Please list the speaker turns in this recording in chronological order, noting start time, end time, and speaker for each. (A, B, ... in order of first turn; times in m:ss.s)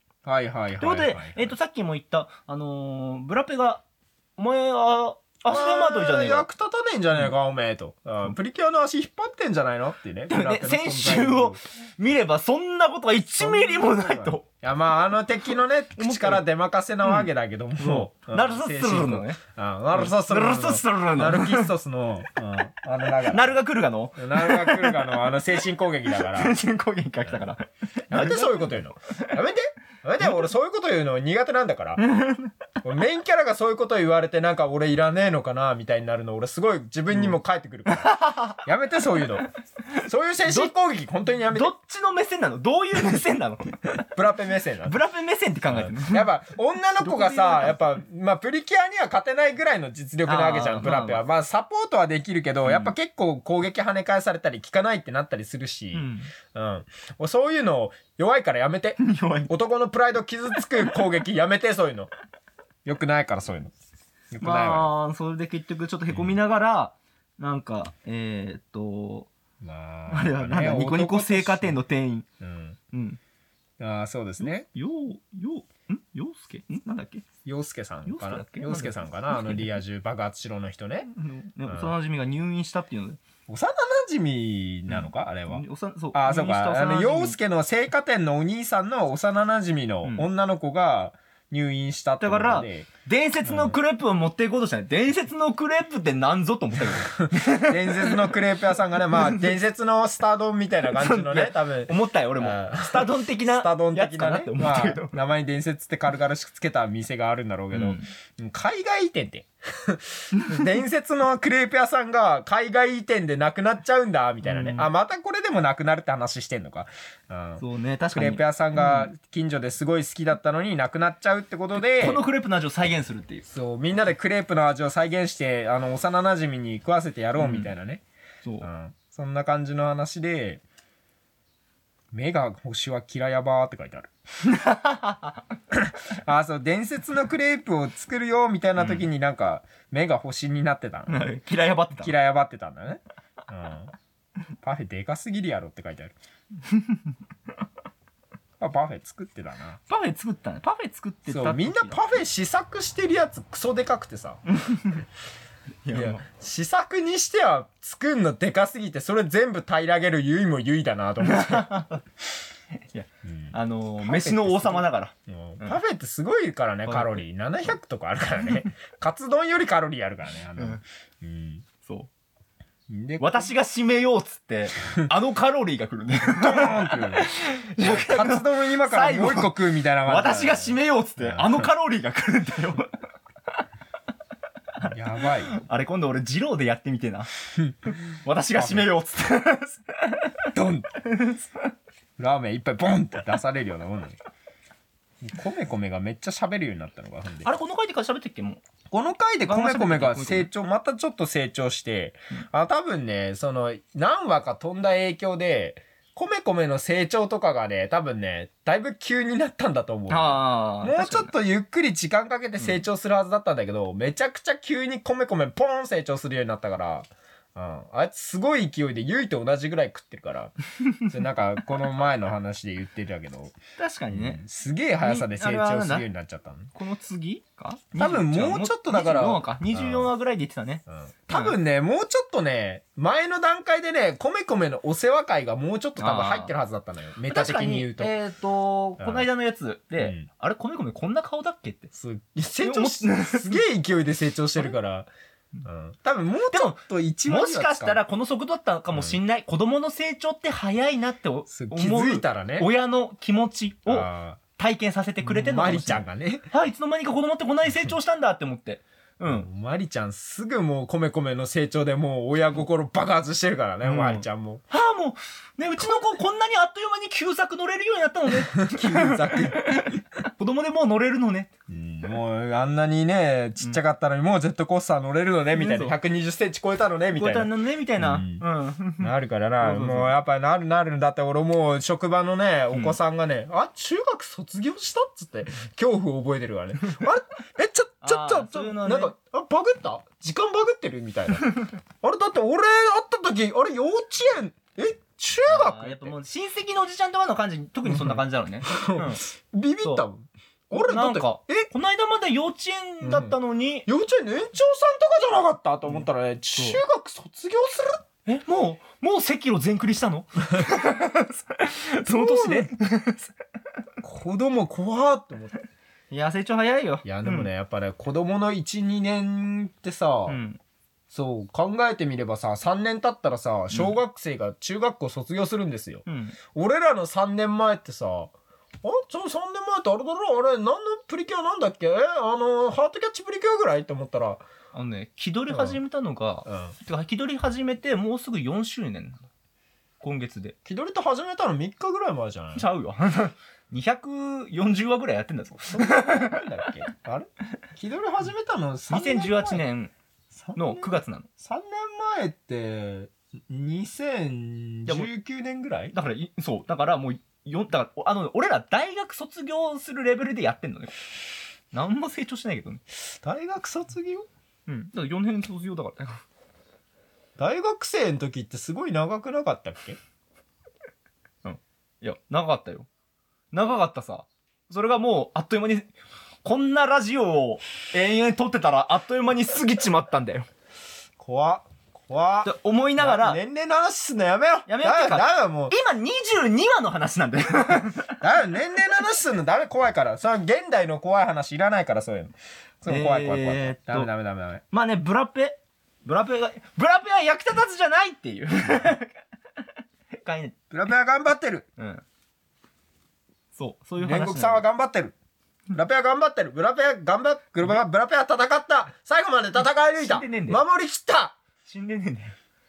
0:00.2-0:01.5 A
0:00.8-0:03.8 B
0:04.4-0:06.5 B
0:05.5-0:11.6 A
0:10.3-0:14.4 B
0:13.4-0:23.6 A
0:16.0-0:16.4 B
0:17.8-0:19.4 B
0:19.9-0:21.7 B
0:23.2-0:25.5 B
0:24.2-0:26.6 A
0:26.1-0:29.3 B
0:28.1-0:32.0 A
0:32.0-0:32.5 B
0:32.8-0:39.5 A
0:37.9-0:38.6 B
0:40.0-0:41.7 A
0:40.5-0:40.7 B
0:41.5-0:44.0 B
0:44.0-0:45.0 A
0:44.9-0:46.3 B
0:45.7-1:02.1 A
0:47.0-0:47.8 B
0:50.2-0:51.2 B
0:52.6-0:52.9 B
0:55.9-0:56.3 B
0:59.0-0:59.5 B
1:02.8-1:03.7 A
1:04.3-1:04.9 A
1:04.4-1:09.3 B
1:06.1-1:06.4 A
1:09.6-1:11.8 A
1:10.1-1:12.2 B
1:12.4-1:12.8 A
1:12.9-1:13.2 B
1:13.8-1:14.7 A
1:14.4-1:17.2 B
1:17.4-1:21.1 A
1:18.0-1:19.8 B
1:21.1-1:23.2 B
1:21.6-1:22.0 A
1:23.5-1:32.9 A
1:24.9-1:27.4 B
1:30.0-1:30.3 B
1:32.2-1:38.4 B
1:33.4-1:33.8 A
1:36.8-2:02.2 A
1:39.1-1:39.4 B
1:40.9-1:45.1 B
1:47.7-1:48.1 B
1:54.4-1:54.9 B
1:57.6-1:59.1 B
2:01.8-2:03.4 B
2:03.5-2:08.0 A
2:07.4-2:07.7 B
2:08.6-2:10.6 A
2:12.1-2:14.1 A
2:14.4-2:15.4 B
2:15.7-2:21.3 A
2:18.8-2:19.1 B
2:21.1-2:22.1 B
2:21.9-2:23.9 A
2:24.6-2:26.1 A
2:26.6-2:27.1 B
2:28.6-2:29.8 A
2:29.9-2:32.0 B
2:31.3-2:34.4 A
2:34.5-2:35.0 B
2:35.8-2:36.2 B
2:35.9-2:41.8 A
2:41.2-2:42.0 B
2:42.8-2:45.8 B
2:43.2-2:51.6 A
2:46.8-2:47.2 B
2:51.8-2:52.1 B
2:52.9-2:53.5 A
2:53.2-3:02.9 B
2:56.4-3:01.7 A
3:04.8-3:05.5 A
3:05.2-3:07.3 B
3:07.5-3:08.9 A
3:07.9-3:10.3 B
3:10.5-3:10.9 A
3:11.0-3:11.4 B
3:12.2-3:14.2 A
3:15.2-3:17.5 A
3:17.4-3:18.6 B
3:18.9-3:40.5 A
3:19.4-3:20.5 B
3:30.1-3:31.3 B
3:41.0-3:43.5 A
3:43.8-3:44.4 B
3:44.1-3:46.7 A
3:45.0-3:46.1 B
3:46.7-3:51.6 B
3:48.0-3:50.1 A
3:50.9-3:58.1 A
3:56.0-3:56.5 B
3:57.3-4:01.9 B
3:59.0-3:59.3 A
4:00.0-4:00.2 A
4:01.9-4:05.1 A
4:02.6-4:03.6 B
4:05.6-4:08.0 A
4:06.5-4:19.5 B
4:11.5-4:12.7 A
4:13.9-4:14.4 A
4:15.2-4:16.4 A
4:19.3-4:24.6 A
4:23.8-4:31.5 B
4:25.8-4:26.2 A
4:28.4-4:30.0 A
4:31.7-4:38.4 A
4:35.5-4:35.9 B
4:37.1-4:40.1 B
4:39.0-4:56.2 A
4:42.7-4:43.0 B
4:48.0-4:49.1 B
4:55.5-4:59.2 B
4:57.8-5:01.7 A
5:00.7-5:03.9 B
5:03.0-5:08.0 A
5:05.9-5:06.8 B
5:08.2-5:13.3 B
5:12.0-5:12.7 A
5:14.0-5:15.6 A
5:16.1-5:17.5 B
5:17.0-5:20.4 A
5:20.3-5:20.6 B
5:21.1-5:34.4 A
5:23.7-5:24.0 B
5:26.0-5:26.4 B
5:34.7-5:39.3 B
5:35.5-5:35.8 A
5:36.4-5:36.8 A
5:40.0-5:40.5 B
5:40.6-5:42.7 A
5:42.5-5:46.7 B
5:45.7-5:49.6 A
5:48.9-5:49.9 B
5:50.3-5:55.9 A
5:50.6-5:51.3 B
5:55.9-6:00.9 B
6:01.7-6:02.8 B
6:03.2-6:04.3 A
6:04.7-6:06.2 B
6:07.4-6:10.0 A
6:11.4-6:12.9 B
6:13.5-6:20.5 B
6:21.2-6:25.8 A
6:22.4-6:23.4 B
6:24.7-6:28.2 B
6:28.2-6:34.6 A
6:32.9-6:34.1 B
6:34.7-6:39.2 B
6:40.2-6:40.5 B
6:40.7-6:41.6 A
6:41.8-6:42.0 B
6:43.6-6:44.6 B
6:44.0-6:45.1 A
6:45.7-6:51.4 A
6:49.6-6:50.6 B
6:51.6-6:52.4 B